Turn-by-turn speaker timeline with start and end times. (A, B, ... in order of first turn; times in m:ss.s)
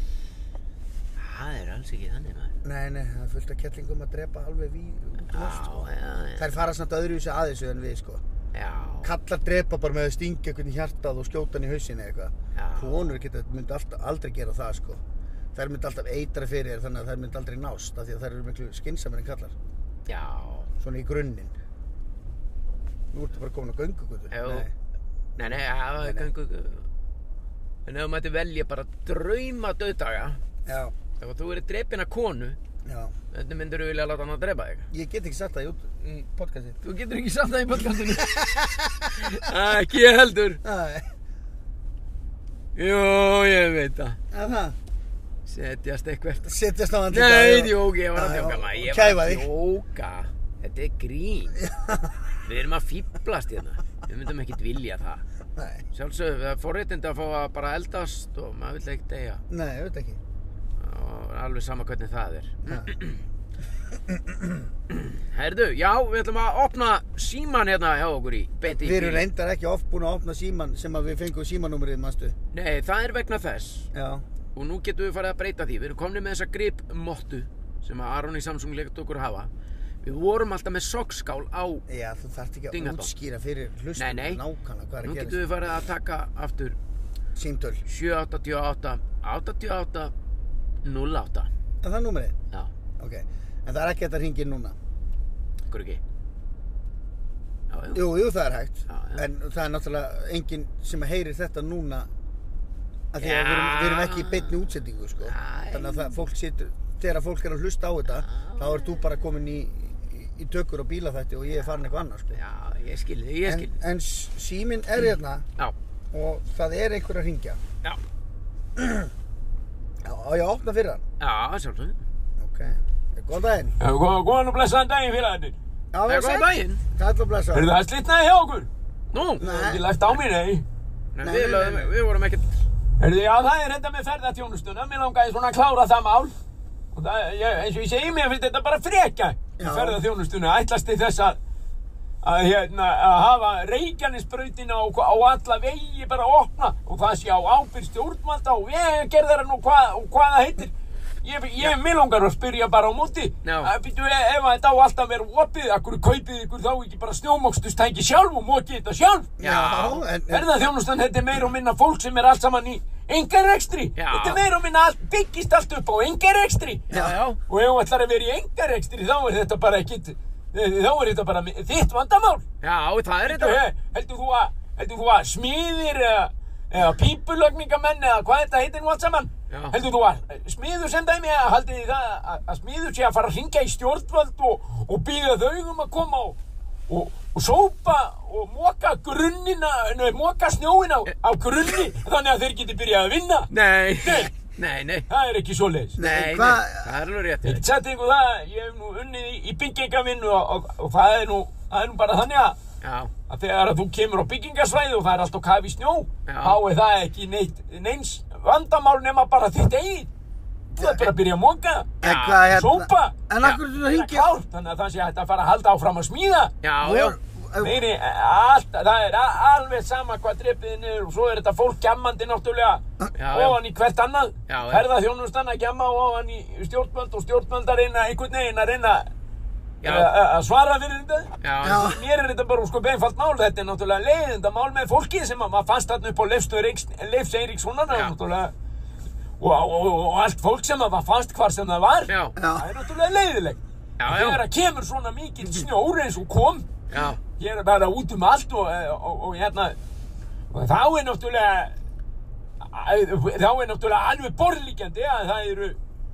0:01.2-0:02.5 A
0:02.6-0:08.2 B
0:05.3-0:06.5 A
0:08.5-0:09.1 A
0:09.0-0:15.0 B
0:12.5-0:13.2 A
0:15.5-0:19.6 B
0:20.1-0:20.7 A
0:20.8-0:21.6 B
0:23.1-0:24.7 B
0:24.3-0:24.7 A
0:25.4-0:26.9 A
0:26.0-0:26.3 B
0:27.9-0:30.4 A
0:30.7-0:30.9 B
0:31.2-0:32.6 A
0:32.8-0:33.2 B
0:33.3-0:34.9 A
0:34.9-0:36.8 B
0:36.8-0:40.6 A
0:38.1-0:39.4 B
0:40.6-0:41.1 B
0:42.8-0:44.2 A
0:44.3-0:44.8 B
0:45.5-0:46.5 A
0:46.4-0:49.5 B
0:47.1-0:51.7 A
0:51.6-0:52.2 B
0:52.4-0:55.2 A
0:55.6-0:55.8 B
0:55.9-0:59.4 A
0:59.5-1:00.2 B
1:00.8-1:03.2 A
1:04.1-1:04.7 B
1:04.9-1:09.3 A
1:08.6-1:12.4 B
1:12.5-1:13.9 A
1:13.9-1:14.2 B
1:14.6-1:19.5 A
1:20.0-1:21.8 A
1:21.9-1:25.5 B
1:22.7-1:23.1 A
1:24.0-1:24.4 A
1:25.0-1:26.8 A
1:27.4-1:27.8 B
1:27.8-1:30.1 A
1:30.8-1:31.5 A
1:31.8-1:32.4 B
1:33.0-1:34.8 B
1:35.7-1:36.0 A
1:37.7-1:38.1 A
1:37.9-1:42.1 B
1:38.9-1:39.3 A
1:43.1-1:52.4 B
1:43.2-1:46.2 A
1:48.1-1:49.0 A
1:51.6-1:51.8 A
1:52.3-1:53.8 A
1:53.4-1:55.5 B
1:56.1-1:57.6 B
1:58.8-1:59.1 B
2:00.0-2:01.0 B
2:01.2-2:02.0 A
2:02.4-2:03.8 B
2:03.8-2:05.6 C
2:05.9-2:07.7 B
2:06.1-2:06.8 A
2:07.5-2:08.7 C
2:09.1-2:09.4 A
2:09.4-2:10.6 C
2:09.4-2:09.8 B
2:11.1-2:12.6 A
2:11.2-2:11.9 B
2:13.0-2:16.3 C
2:16.9-2:21.4 C
2:19.6-2:20.0 B
2:22.2-2:39.3 C
2:33.4-2:33.7 A
2:39.4-2:40.6 B
2:39.4-2:40.1 A
2:40.3-2:46.9 C
2:44.0-2:44.4 A
2:46.9-2:47.4 A
2:47.5-2:52.4 C
2:52.6-2:53.6 A
2:53.2-3:06.4 C
2:59.5-2:59.8 A
3:06.9-3:13.5 C
3:13.5-3:15.1 A
3:14.0-3:14.3 C
3:15.1-3:16.0 C
3:16.0-3:16.9 B
3:16.0-3:17.6 A
3:17.4-3:22.6 C
3:22.8-3:23.1 A
3:23.3-3:30.1 C
3:26.3-3:26.6 A
3:30.7-3:31.1 B
3:30.8-3:36.6 C
3:32.0-3:34.3 B
3:36.6-3:37.2 A
3:36.8-3:37.8 B
3:37.6-3:49.1 C
3:43.2-3:43.6 A
3:44.5-3:44.9 A
3:49.8-3:50.1 A
3:49.8-3:58.5 C
3:51.4-3:52.0 A
3:51.6-3:52.0 B
3:57.9-3:58.2 A
3:59.4-4:09.8 C
4:02.1-4:02.4 A
4:02.4-4:02.7 B
4:04.0-4:04.4 A
4:06.9-4:07.2 A
4:10.5-4:11.7 C
4:12.6-4:15.8 C